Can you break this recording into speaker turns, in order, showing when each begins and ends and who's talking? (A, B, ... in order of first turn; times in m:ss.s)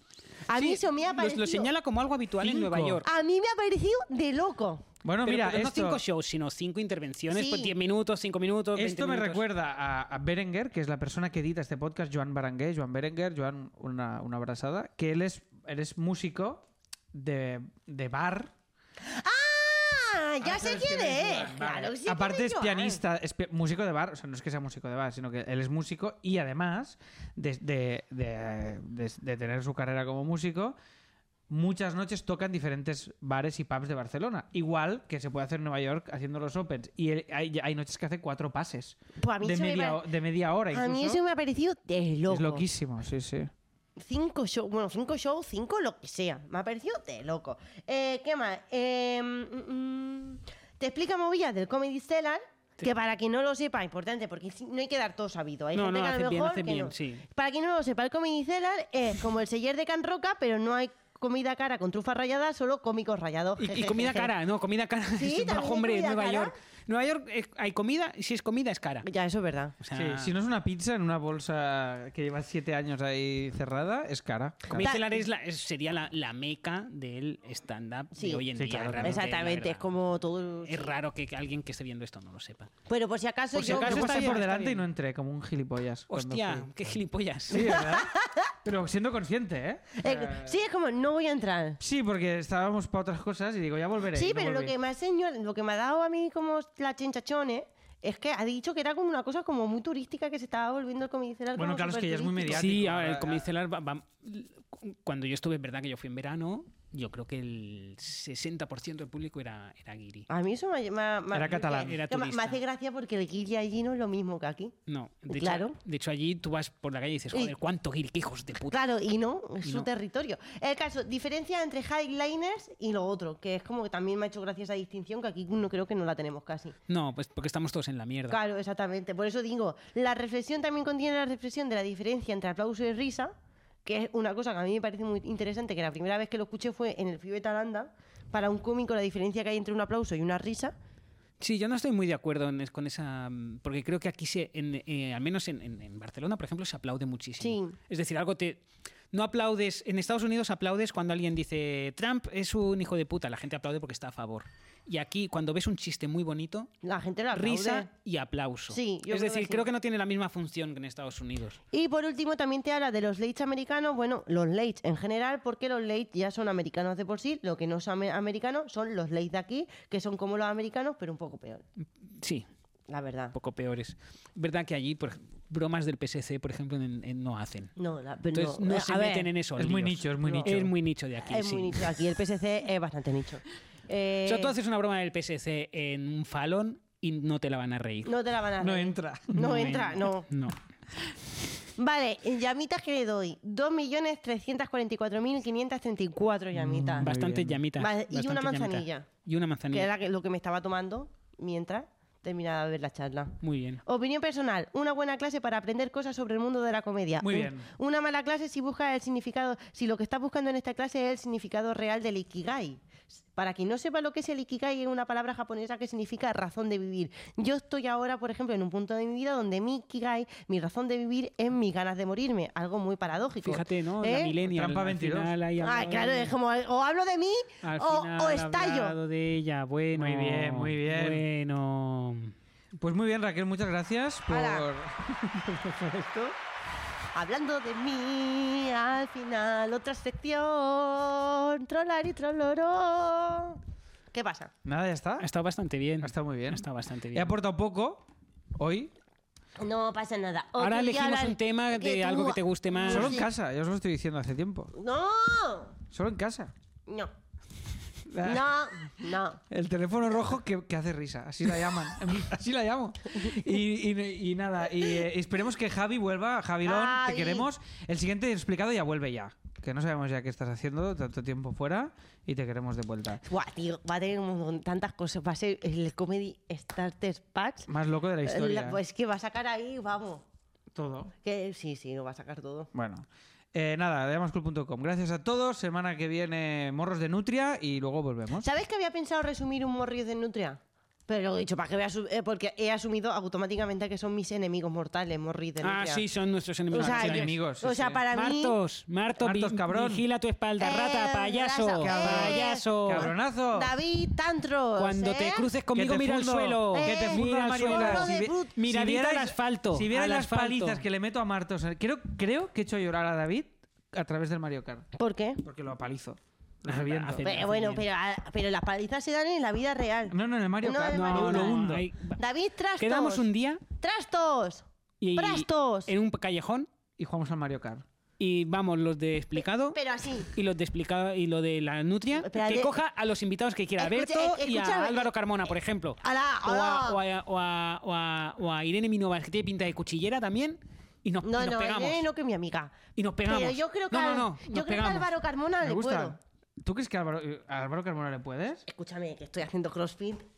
0:00.4-0:01.7 A
0:00.5-0:03.1 B
0:02.4-0:03.0 C
0:03.0-0:04.8 A
0:05.0-0:06.0 C
0:05.2-0:09.4 B
0:07.3-0:07.7 A
0:08.7-0:18.5 C
0:19.0-0:23.0 A
0:20.4-0:30.8 C
0:31.5-0:41.2 C
0:39.2-0:40.0 A
0:40.7-0:42.6 A
0:42.3-0:43.5 C
0:44.0-1:04.3 A
0:55.7-0:57.2 B
1:03.6-1:09.1 B
1:05.1-1:06.5 A
1:09.0-1:09.8 A
1:09.8-1:10.3 B
1:09.9-1:14.9 C
1:14.7-1:19.9 B
1:14.7-1:15.2 A
1:18.1-1:18.5 A
1:18.5-1:19.2 C
1:19.0-1:20.9 A
1:20.6-1:22.7 B
1:22.9-1:24.5 A
1:23.5-1:24.8 B
1:23.6-1:26.7 C
1:26.1-1:27.7 B
1:27.5-1:28.1 C
1:27.5-1:28.5 A
1:28.6-1:30.6 C
1:30.0-1:31.8 A
1:31.8-1:34.7 C
1:34.1-1:42.7 A
1:41.5-1:43.4 C
1:42.5-1:50.3 B
1:50.3-1:54.7 A
1:51.3-1:51.9 C
1:51.8-1:52.6 B
1:54.9-1:58.8 B
1:55.3-1:55.8 A
1:58.7-2:06.8 A
1:59.6-1:59.9 B
2:06.9-2:08.4 B
2:08.3-2:13.3 A
2:13.8-2:20.7 A
2:21.4-2:36.7 B
2:27.4-2:27.8 A
2:36.8-2:37.9 A
2:37.3-2:41.6 B
2:38.7-2:39.7 A
2:41.7-2:51.6 A
2:52.1-2:52.5 B
2:52.9-2:53.3 A
2:53.3-2:57.7 B
2:57.8-2:59.3 A
2:58.3-3:01.9 B
2:59.6-3:00.7 C
3:00.2-3:00.6 A
3:01.2-3:04.6 A
3:04.2-3:08.1 B
3:08.0-3:10.3 A
3:08.6-3:09.7 C
3:09.3-3:10.6 B
3:11.8-3:17.1 A
3:16.5-3:17.6 C
3:17.0-3:19.9 B
3:17.8-3:19.1 A
3:19.7-3:32.8 A
3:23.4-3:23.8 B
3:27.2-3:27.7 C
3:33.3-3:44.4 A
3:43.4-3:46.3 B
3:44.4-3:45.3 C
3:45.6-3:49.0 A
3:47.6-3:52.3 B
3:49.9-3:51.2 C
3:52.8-3:56.3 C
3:54.3-3:54.7 A
3:57.1-4:03.6 A
4:04.1-4:04.5 A
4:04.6-4:05.3 C
4:05.2-4:07.3 B
4:06.0-4:08.0 C
4:08.6-4:08.9 C
4:09.6-4:13.3 A
4:10.6-4:13.2 B
4:12.9-4:14.7 C
4:14.7-4:15.8 A
4:15.9-4:16.5 C
4:16.8-4:17.1 A
4:18.1-4:33.2 C
4:18.2-4:19.4 A
4:24.8-4:25.1 A
4:26.6-4:27.5 A
4:33.2-4:37.7 A
4:37.7-4:38.8 C
4:38.2-4:40.2 A
4:40.7-4:41.1 C
4:41.2-4:42.7 A
4:42.7-4:48.5 C
4:48.4-4:56.0 A
4:55.6-4:57.3 B
4:56.7-4:58.6 A
4:56.8-4:58.0 C
4:58.1-5:03.1 B
4:59.2-5:00.0 C
5:00.6-5:05.5 A
5:01.8-5:03.7 C
5:04.8-5:10.8 B
5:05.7-5:14.9 C
5:06.7-5:08.6 A
5:14.9-5:15.4 A
5:15.4-5:17.2 C
5:16.7-5:17.8 B
5:17.2-5:25.9 A
5:20.1-5:21.9 C
5:20.9-5:22.2 B
5:22.8-5:23.6 B
5:25.0-5:26.7 B
5:27.0-5:27.8 C
5:28.2-5:42.0 B
5:29.7-5:30.3 A
5:32.2-5:32.8 A
5:33.8-5:35.1 A
5:36.0-5:37.0 A
5:41.2-5:46.2 A
5:43.0-5:45.1 B
5:45.6-5:48.6 C
5:48.6-5:50.2 A